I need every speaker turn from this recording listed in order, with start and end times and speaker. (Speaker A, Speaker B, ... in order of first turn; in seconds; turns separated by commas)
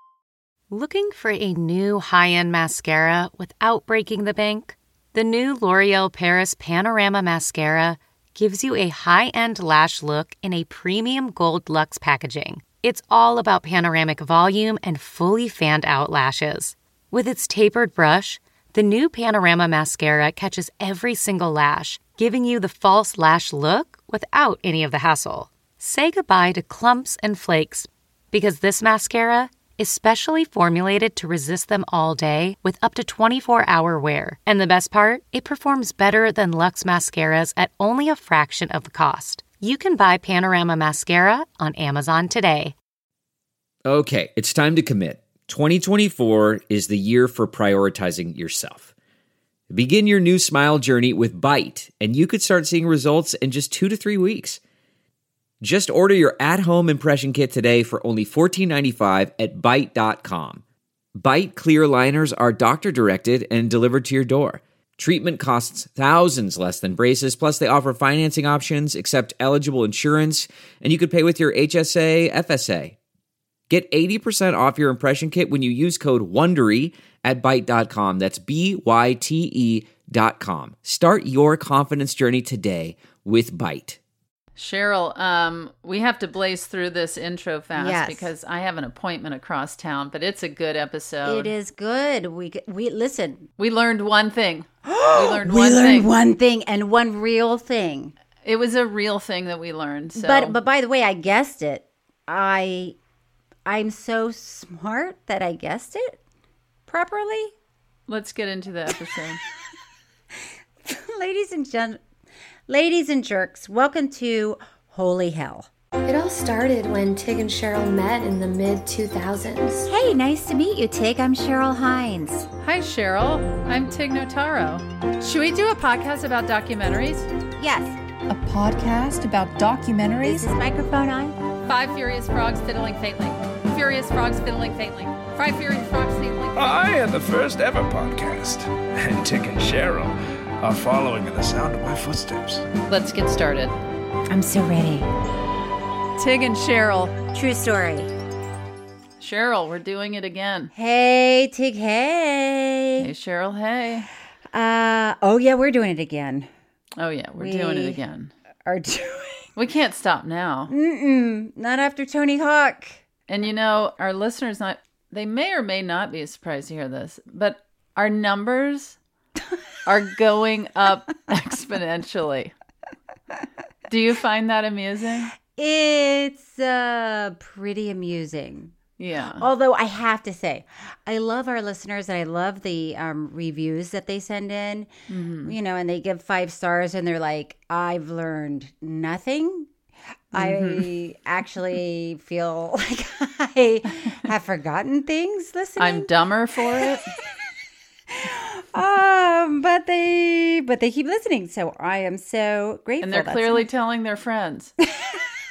Speaker A: 0.7-42.8, Speaker B: 43.9-48.9, Speaker B: 49.7-54.6, Speaker B: 55.6-60.6, Speaker B: 61.2-73.0, Speaker B: 73.7-84.0, Speaker C: 84.6-91.5, Speaker D: 87.7-88.3, Speaker D: 91.2-93.5, Speaker C: 93.6-96.1, Speaker D: 94.8-98.1, Speaker C: 98.5-100.6, Speaker D: 100.1-103.0, Speaker D: 103.7-106.2, Speaker D: 106.9-107.5, Speaker C: 108.1-109.4, Speaker D: 110.8-112.0, Speaker D: 112.7-115.7, Speaker E: 116.1-119.9, Speaker D: 119.9-122.5, Speaker C: 122.6-127.3, Speaker D: 127.6-128.0, Speaker F: 128.3-130.5, Speaker D: 130.2-131.4, Speaker C: 131.7-136.8, Speaker G: 136.6-142.7, Speaker C: 142.9-143.7, Speaker D: 144.3-145.1, Speaker C: 146.2-147.2, Speaker D: 147.3-148.1, Speaker C: 149.2-150.7, Speaker D: 150.7-153.1, Speaker C: 153.0-154.1, Speaker D: 154.5-156.5, Speaker C: 157.0-158.3, Speaker D: 157.4-158.0, Speaker D: 158.7-159.5, Speaker C: 159.6-160.7, Speaker D: 160.7-163.0, Speaker C: 163.3-169.0, Speaker C: 169.8-172.5, Speaker C: 173.9-175.3, Speaker D: 175.4-178.7, Speaker C: 179.0-179.5, Speaker D: 179.3-184.9, Speaker C: 185.1-185.5, Speaker D: 185.4-189.7, Speaker D: 190.3-196.1, Speaker C: 190.3-190.9, Speaker C: 195.8-197.1, Speaker D: 196.8-197.4, Speaker D: 198.1-203.7, Speaker C: 203.0-204.8, Speaker D: 204.9-205.2